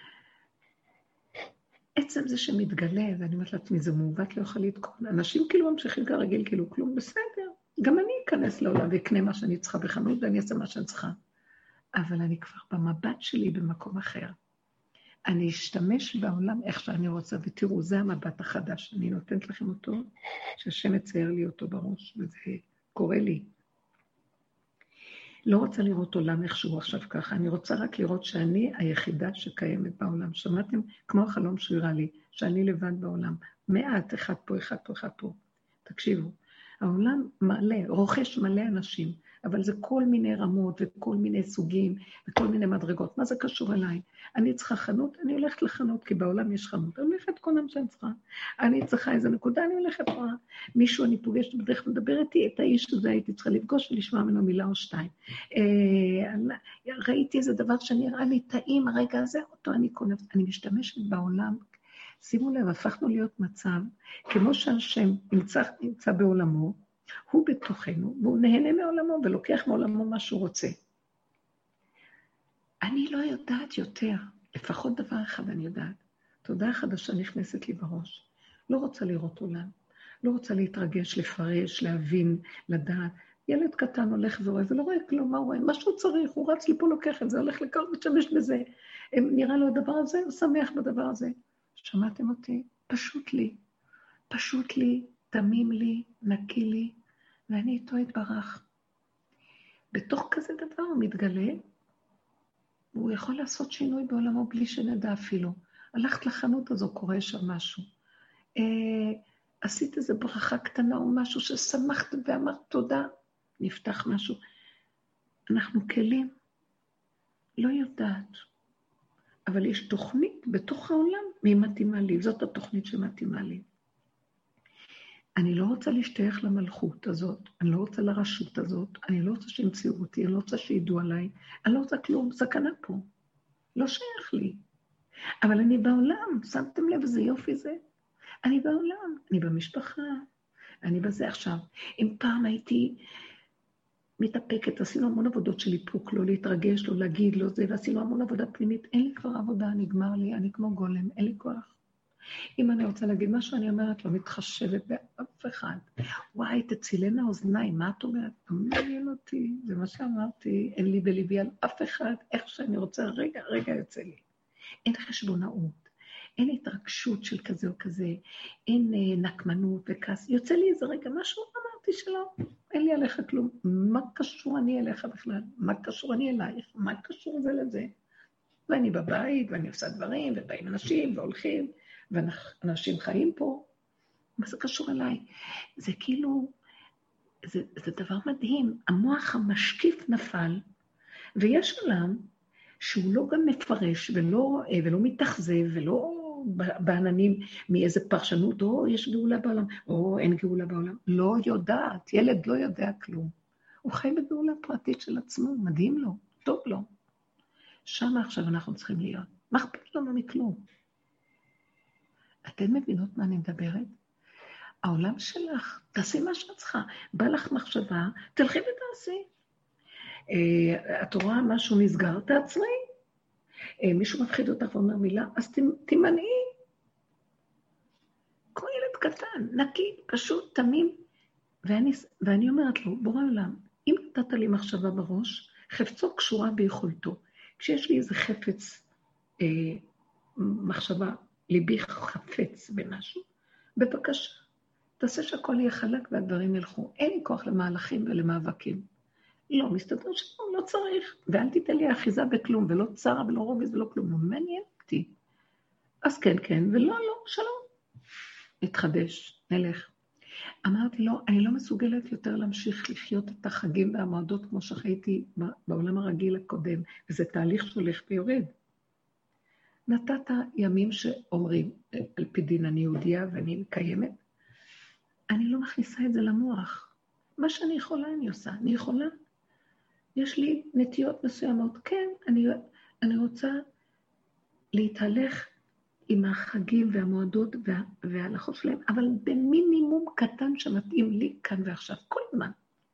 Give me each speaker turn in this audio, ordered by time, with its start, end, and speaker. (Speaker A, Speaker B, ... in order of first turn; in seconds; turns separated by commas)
Speaker A: 2.0-11.2, Speaker A: 12.0-14.3, Speaker A: 15.3-20.1, Speaker A: 20.6-23.5, Speaker A: 25.5-61.6, Speaker A: 62.2-70.7, Speaker A: 72.8-79.7, Speaker A: 80.2-93.6, Speaker A: 94.3-97.0, Speaker A: 97.5-98.6, Speaker A: 99.9-101.6, Speaker A: 103.0-107.8, Speaker A: 108.6-113.1, Speaker A: 113.6-114.4, Speaker A: 115.5-116.3, Speaker A: 117.6-118.4, Speaker A: 119.5-123.7, Speaker A: 125.4-133.1, Speaker A: 133.8-134.6, Speaker A: 135.4-137.8, Speaker A: 138.4-140.3, Speaker A: 140.8-143.0, Speaker A: 144.2-151.8, Speaker A: 152.6-164.2, Speaker A: 164.9-177.9, Speaker A: 178.7-183.7, Speaker A: 184.4-185.3, Speaker A: 185.8-186.5, Speaker A: 187.5-190.6, Speaker A: 191.4-192.3, Speaker A: 192.8-203.3, Speaker A: 203.8-206.9, Speaker A: 207.9-210.6, Speaker A: 212.5-213.9, Speaker A: 214.8-219.2, Speaker A: 220.3-222.8, Speaker A: 223.8-226.5, Speaker A: 228.6-231.0, Speaker A: 231.7-238.8, Speaker A: 239.4-239.8, Speaker A: 240.4-243.2, Speaker A: 243.8-244.4, Speaker A: 245.0-248.8, Speaker A: 249.5-255.1, Speaker A: 256.1-257.7, Speaker A: 258.6-259.9, Speaker A: 260.7-268.5, Speaker A: 269.9-274.2, Speaker A: 275.3-279.1, Speaker A: 280.2-283.6, Speaker A: 284.7-285.5, Speaker A: 286.1-292.6